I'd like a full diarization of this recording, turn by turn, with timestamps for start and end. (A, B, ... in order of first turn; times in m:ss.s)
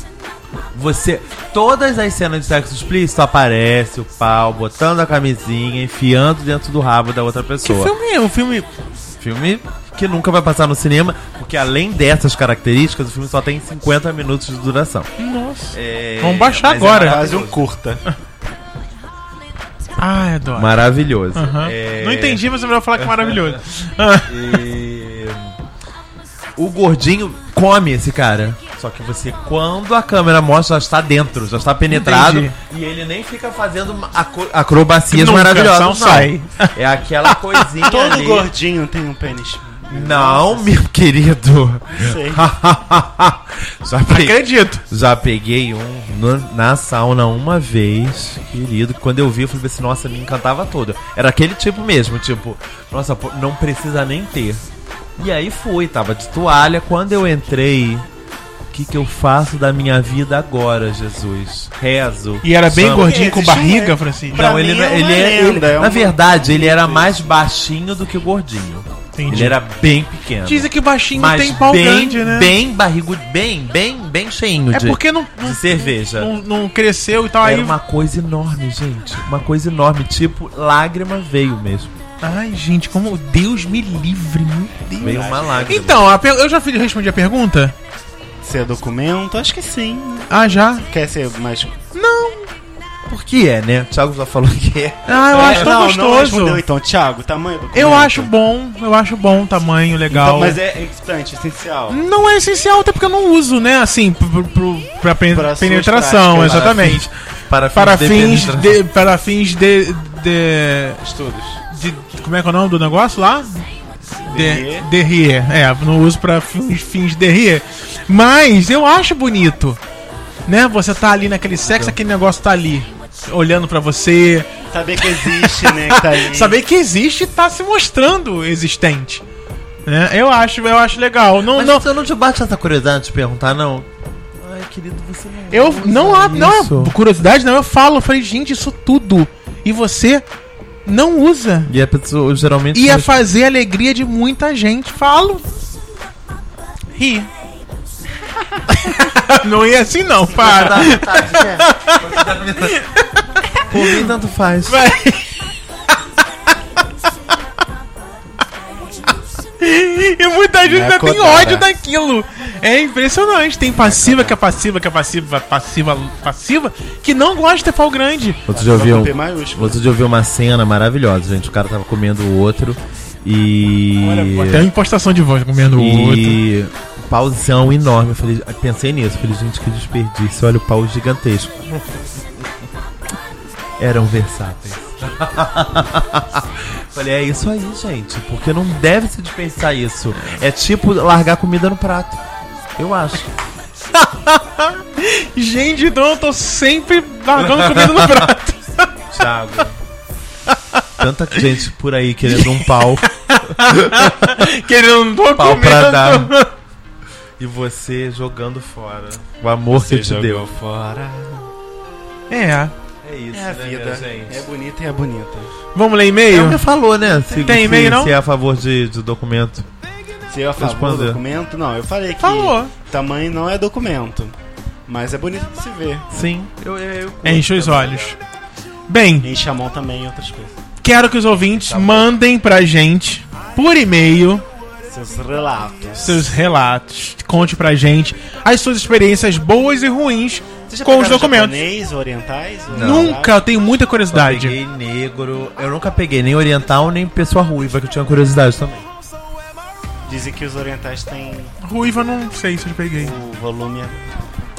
0:00.7-0:07.9 A
0:07.6-0:08.7 B
0:09.2-0:15.1 A
0:15.2-0:17.2 B
0:15.7-0:17.6 A
0:17.0-0:18.0 C
0:20.0-0:20.8 B
0:20.6-0:22.4 A
0:21.3-0:24.6 B
0:23.0-0:23.6 A
0:24.3-0:25.6 A
0:26.6-0:38.5 A
0:31.9-0:32.5 B
0:35.1-0:37.7 B
0:37.8-0:40.7 C
0:39.9-0:54.6 A
0:41.9-0:42.5 C
0:44.1-0:44.8 B
0:55.2-0:58.1 A
0:58.7-1:03.2 A
1:02.4-1:04.4 B
1:02.8-1:07.2 C
1:04.3-1:16.3 A
1:09.2-1:09.6 B
1:10.4-1:12.6 B
1:14.7-1:17.7 B
1:17.4-1:22.0 A
1:22.2-1:27.7 B
1:25.0-1:26.0 A
1:25.0-1:25.8 C
1:28.4-1:31.8 C
1:30.3-1:30.8 B
1:31.9-1:32.5 B
1:33.1-1:35.7 A
1:35.1-1:36.6 B
1:35.3-1:38.3 C
1:37.7-1:40.6 B
1:40.1-1:42.0 C
1:41.9-1:47.1 B
1:45.3-1:47.0 C
1:46.5-1:47.0 A
1:47.5-1:48.8 A
1:47.7-1:51.0 B
1:51.0-1:51.6 C
1:51.7-1:53.6 B
1:54.2-1:59.8 B
1:54.3-1:54.9 C
2:00.5-2:04.5 B
2:01.7-2:02.0 A
2:04.7-2:06.6 C
2:05.0-2:09.2 B
2:09.9-2:11.8 B
2:11.5-2:17.0 A
2:15.5-2:20.2 B
2:20.9-2:21.7 B
2:21.7-2:23.1 A
2:22.7-2:25.4 B
2:27.0-2:27.3 B
2:28.7-2:34.1 B
2:30.3-2:32.8 A
2:33.7-2:34.8 A
2:34.7-2:35.4 B
2:39.6-2:48.4 B
2:40.6-2:41.7 C
2:43.8-2:44.4 C
2:48.5-2:54.7 A
2:48.5-2:49.8 C
2:54.1-2:54.4 C
2:54.2-2:56.4 B
2:55.8-3:02.5 A
3:03.8-3:12.2 A
3:12.8-3:13.3 A
3:14.0-3:18.9 B
3:17.4-3:18.3 A
3:19.1-3:19.8 A
3:20.5-3:20.8 B
3:21.0-3:24.4 A
3:22.3-3:26.5 B
3:25.4-3:26.3 A
3:27.4-3:30.5 A
3:29.8-3:31.5 C
3:32.3-3:32.7 B
3:33.0-3:34.5 A
3:33.3-3:35.5 C
3:35.8-3:36.6 B
3:36.3-3:39.7 A
3:37.0-3:37.7 C
3:37.4-3:38.2 B
3:40.3-3:44.4 C
3:40.6-3:41.2 A
3:42.2-3:42.7 B
3:44.9-3:46.1 C
3:46.1-3:48.1 A
3:47.2-3:48.2 B
3:48.9-3:49.3 B
3:49.2-3:50.6 C
3:50.8-3:54.4 B
3:51.6-3:52.1 C
3:54.9-3:56.3 C
3:56.0-4:01.6 B
4:00.7-4:03.4 C
4:02.7-4:03.1 A
4:02.8-4:04.6 B
4:04.1-4:08.8 A
4:10.1-4:11.6 C
4:11.6-4:13.1 B
4:13.0-4:14.1 C